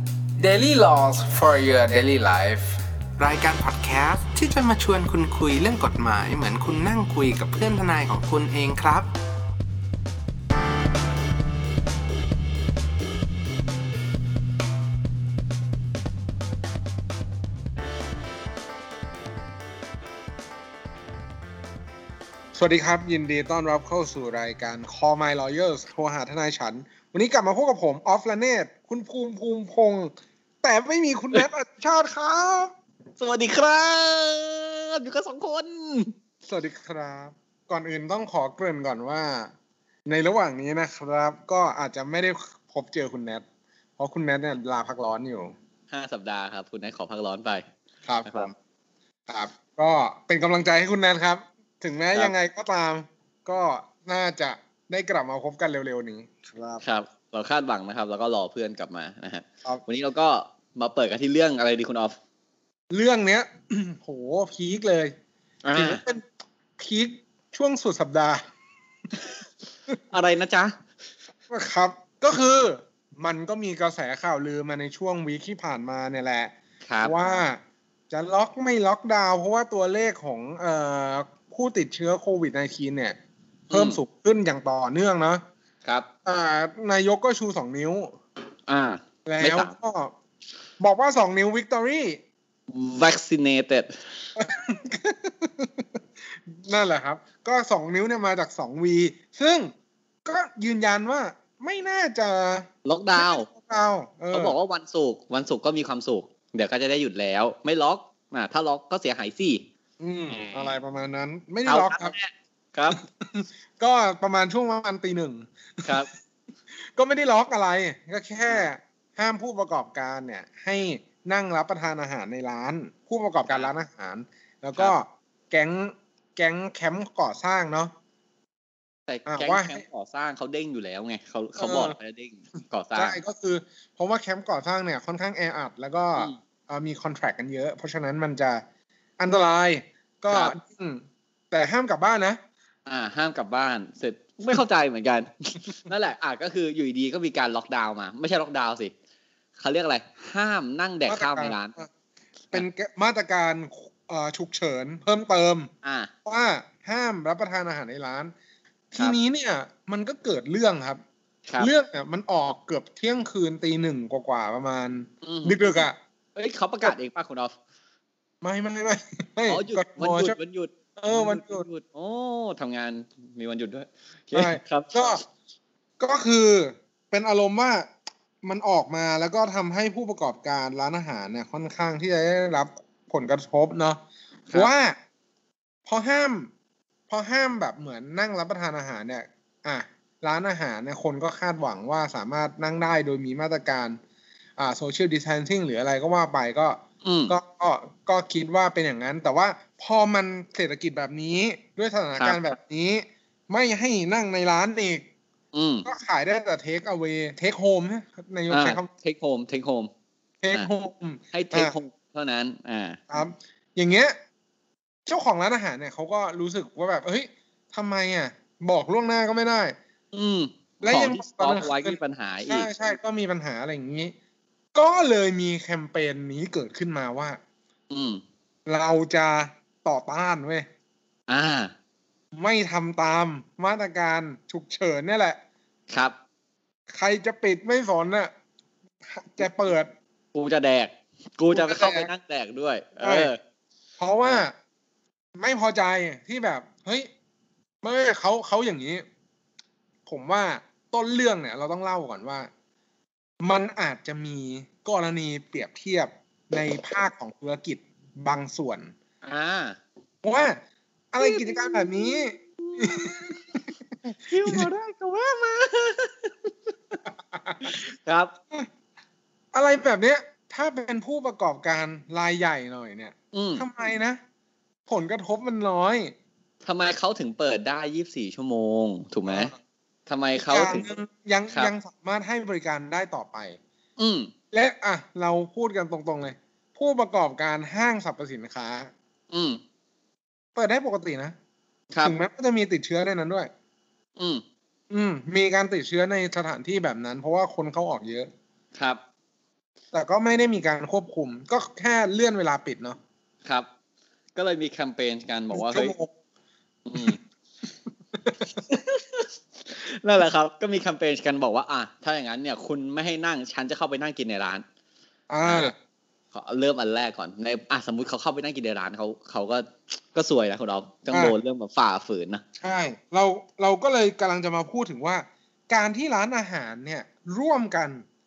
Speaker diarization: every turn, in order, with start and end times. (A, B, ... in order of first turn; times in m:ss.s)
0:00.4-0:09.1 A
0:22.6-0:32.7 B
0:33.2-0:36.1 C
0:36.4-0:39.5 B
0:40.1-0:43.4 B
0:44.0-0:45.5 B
0:45.9-0:47.6 C
0:48.1-0:48.6 B
0:48.2-0:48.5 C
0:49.3-0:56.8 B
0:56.8-1:02.2 C
1:02.9-1:05.1 B
1:05.6-1:06.0 C
1:05.8-1:06.2 B
1:06.8-1:08.4 B
1:10.1-1:10.8 C
1:11.5-1:23.2 B
1:16.9-1:17.1 C
1:23.7-1:24.0 C
1:23.7-1:25.4 B
1:26.3-1:28.1 B
1:28.7-1:29.7 C
1:29.2-1:30.1 B
1:30.8-1:32.2 B
1:32.7-1:34.3 C
1:34.4-1:39.7 B
1:40.2-1:44.6 B
1:42.8-1:43.5 C
1:44.3-1:49.6 C
1:50.0-1:52.1 B
1:50.3-1:50.7 C
1:51.7-1:53.0 C
1:52.9-1:56.2 B
1:56.8-2:07.9 B
2:09.1-2:13.2 C
2:09.3-2:09.8 B
2:11.6-2:12.0 B
2:13.0-2:18.6 B
2:19.2-2:22.4 B
2:22.9-2:28.9 C
2:29.6-2:31.7 C
2:31.1-2:31.9 B
2:32.5-2:35.7 B
2:35.8-2:36.1 C
2:36.3-2:38.3 B
2:38.9-2:41.0 B
2:41.6-2:46.0 B
2:45.2-2:45.6 C
2:46.4-2:47.6 C
2:48.4-2:50.4 B
2:49.5-2:55.2 C
2:51.0-2:51.7 B
2:54.3-2:55.2 B
2:56.0-2:57.9 B
2:58.4-3:04.0 B
3:04.5-3:05.0 B
3:05.9-3:06.5 B
3:07.1-3:14.0 B
3:14.6-3:25.1 B
3:17.0-3:17.4 C
3:22.2-3:22.4 C
3:25.5-3:25.9 C
3:25.8-3:28.9 B
3:28.5-3:29.9 C
3:30.4-3:31.8 B
3:31.3-3:33.0 C
3:33.1-3:34.2 B
3:35.1-3:39.8 B
3:40.1-3:42.7 C
3:40.8-3:44.1 B
3:44.7-3:47.4 B
3:47.9-3:48.2 C
3:48.7-3:50.7 B
3:51.3-3:51.7 C
3:52.4-3:55.4 B
3:56.9-3:58.3 B
3:59.0-3:59.9 B
4:00.3-4:03.4 C
4:01.5-4:02.1 B
4:03.0-4:03.3 B
4:04.0-4:04.5 B
4:05.4-4:07.1 B
4:07.8-4:09.0 B
4:10.1-4:12.5 B
4:13.4-4:18.9 B
4:19.2-4:19.8 C
4:20.2-4:20.6 B
4:21.1-4:23.6 B
4:21.2-4:23.4 C
4:24.1-4:27.0 C
4:27.3-4:27.7 B
4:27.6-4:28.3 C
4:29.5-4:34.2 B
4:33.3-4:33.6 C
4:34.9-4:36.1 B
4:36.6-4:39.5 C
4:39.3-4:39.6 B
4:40.1-4:40.9 C
4:40.5-4:43.6 B
4:44.0-4:44.3 C
4:44.5-4:48.9 B
4:49.3-4:49.6 C
4:50.6-4:51.4 B
4:51.9-4:52.2 C
4:52.0-4:53.5 B
4:54.2-4:54.4 C
4:54.9-4:58.3 B
4:58.8-4:59.0 C
4:59.9-5:03.0 B
5:04.4-5:05.9 C
5:05.5-5:06.1 B
5:06.9-5:07.2 C
5:08.7-5:14.6 C
5:15.3-5:15.7 B
5:15.4-5:15.7 C
5:16.3-5:22.4 C
5:22.6-5:28.0 B